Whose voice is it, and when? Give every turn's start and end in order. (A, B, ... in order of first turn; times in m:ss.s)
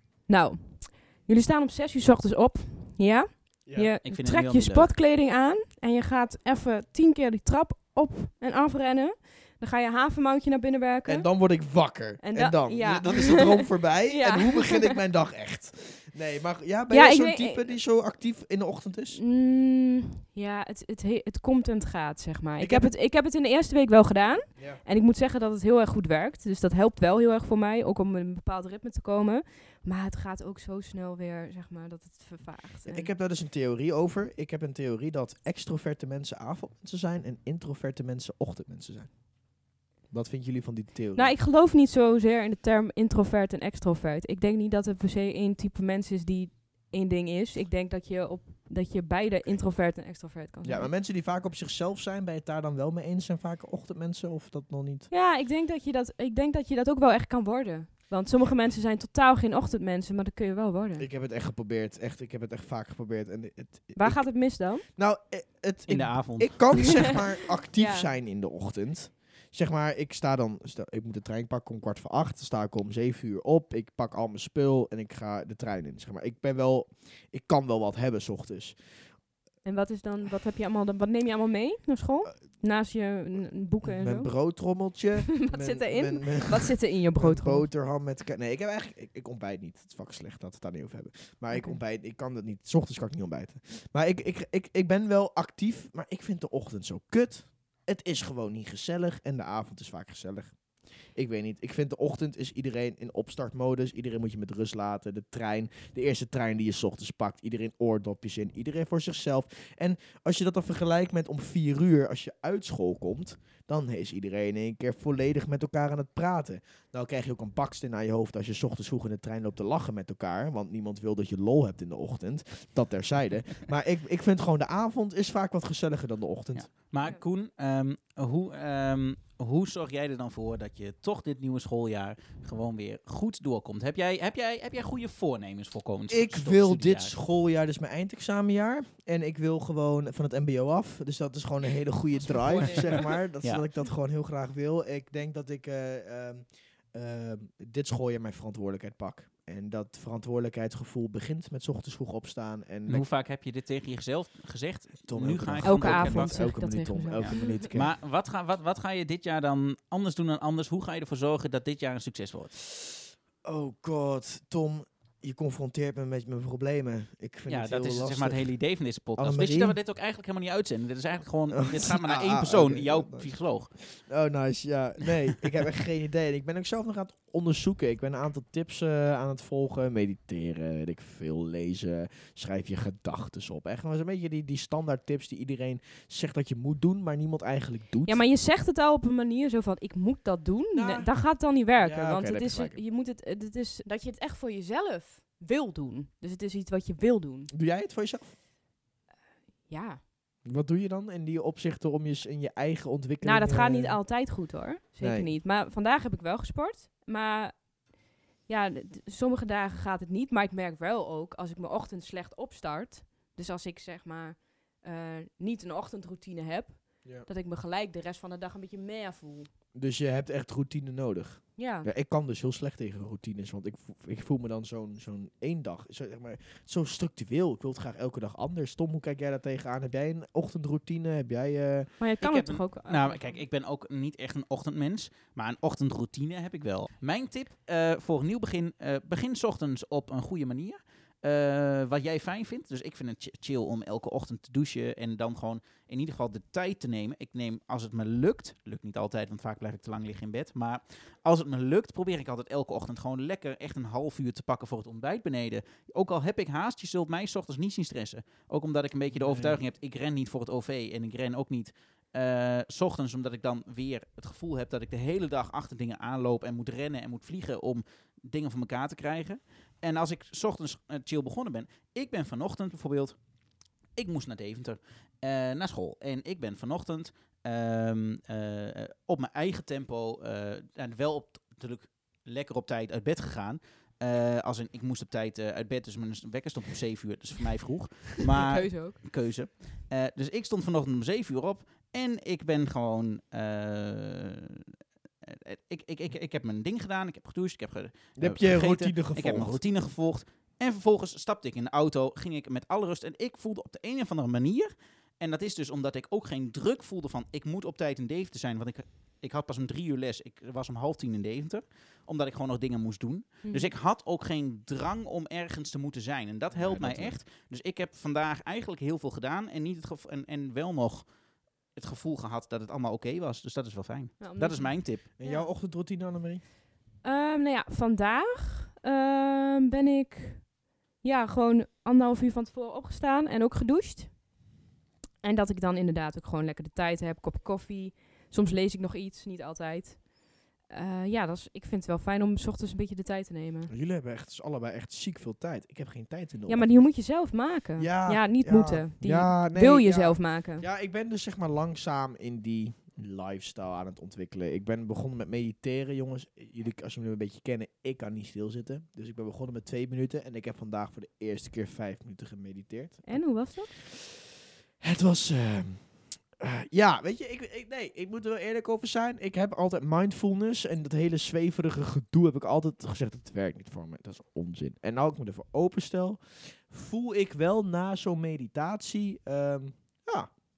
0:00.3-0:11.4 A
0:04.0-0:04.9 B
0:11.0-0:19.2 C
0:12.2-0:15.0 A
0:16.9-0:17.7 A
0:19.2-0:33.1 A
0:22.6-0:22.9 C
0:24.6-0:24.8 C
0:32.8-0:39.2 C
0:40.1-0:41.4 C
0:41.1-0:50.9 A
0:50.6-0:55.1 C
0:55.1-1:01.0 A
1:01.0-1:18.8 C
1:03.9-1:04.8 A
1:05.9-1:07.1 B
1:06.7-1:07.2 A
1:07.7-1:08.1 A
1:19.6-1:24.4 A
1:23.8-1:40.6 C
1:25.3-1:27.7 A
1:31.5-1:31.8 A
1:41.1-2:06.7 C
2:06.5-2:17.1 B
2:16.1-2:33.0 C
2:22.2-2:23.1 A
2:22.7-2:23.6 B
2:32.9-2:36.5 B
2:35.1-2:38.0 C
2:35.6-2:37.7 A
2:37.2-2:42.5 B
2:42.8-2:48.5 C
2:47.5-2:53.7 B
2:49.2-2:49.8 C
2:51.5-3:08.2 C
3:08.0-3:17.5 A
3:10.7-3:11.1 C
3:11.8-3:12.8 C
3:17.5-3:18.3 C
3:19.7-3:20.0 A
3:20.4-3:24.0 C
3:23.2-3:27.7 A
3:25.0-3:25.3 C
3:28.5-3:39.5 A
3:39.7-3:51.9 C
3:41.6-3:41.9 A
3:52.0-3:53.4 A
3:52.2-4:33.2 B
4:19.1-4:19.6 C
4:33.9-4:54.7 B
4:48.4-4:49.0 A
4:55.2-5:21.1 B
4:58.2-4:59.6 C
5:13.4-5:13.7 A
5:16.5-5:17.2 C
5:21.7-5:25.0 B
5:24.2-5:25.5 A
5:25.2-5:26.4 C
5:27.0-5:34.2 A
5:35.2-5:40.1 A
5:40.6-5:43.7 A
5:43.7-5:46.7 C
5:46.5-5:50.6 A
5:47.8-6:04.1 C
6:03.0-6:03.8 A
6:04.8-6:20.3 C